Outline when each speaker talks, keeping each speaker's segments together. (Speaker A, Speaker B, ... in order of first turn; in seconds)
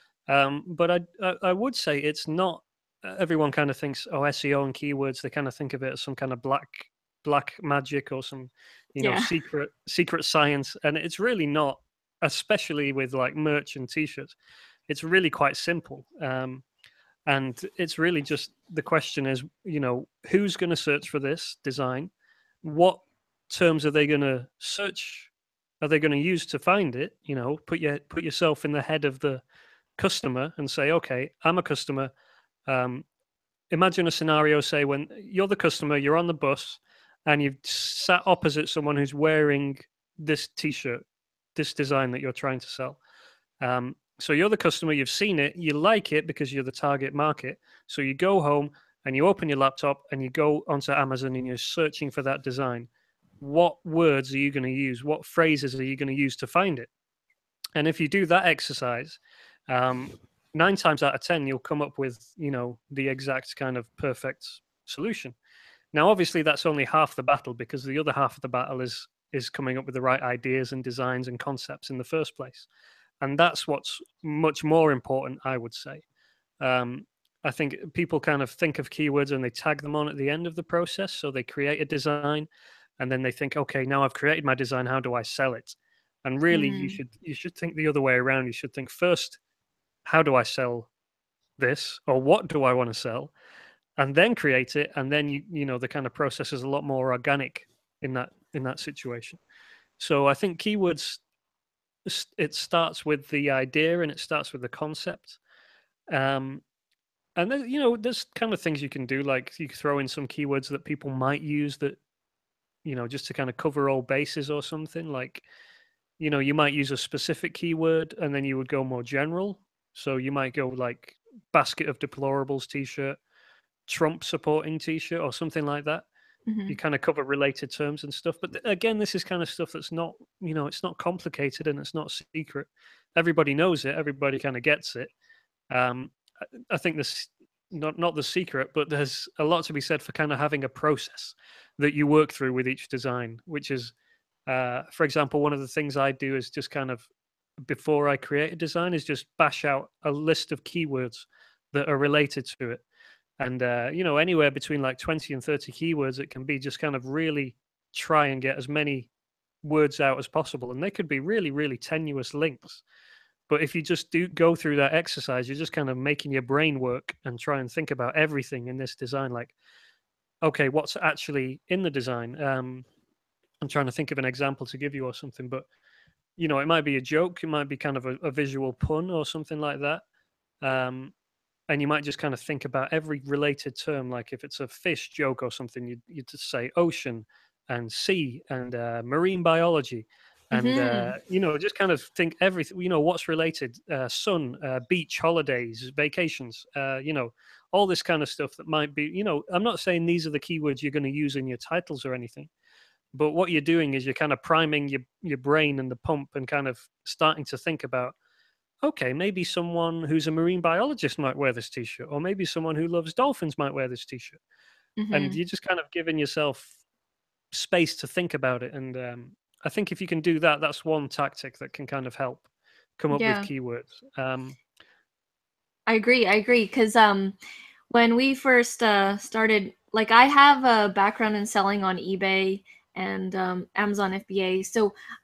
Speaker A: 0.3-14.3, 14.9-16.6, 17.3-22.1, 22.6-29.4, 30.0-32.1, 32.7-33.0, 33.7-43.0, 43.6-52.9, 53.4-56.9, 57.8-65.3, 65.9-72.7, 73.2-76.0, 76.6-82.5, 83.0-89.4, 90.0-90.9, 91.6-93.3, 94.0-99.4, 100.0-101.2, 102.0-105.4, 106.1-106.6, 107.3-112.0, 112.8-115.5, 116.2-123.2, 123.9-126.0, 126.7-135.1, 135.7-143.9, 144.5-147.1, 147.6-152.8, 153.4-159.1, 159.6-162.8, 163.5-169.5, 170.4-172.8, 173.6-175.7, 176.4-180.0, 180.6-181.1, 181.7-202.5, 203.1-208.1, 208.8-214.4, 215.1-216.7, 217.5-224.6
Speaker B: 9.0-9.3, 86.5-87.0, 126.5-126.8, 190.5-191.2, 215.0-215.4, 223.1-223.5, 225.9-227.3, 227.9-234.9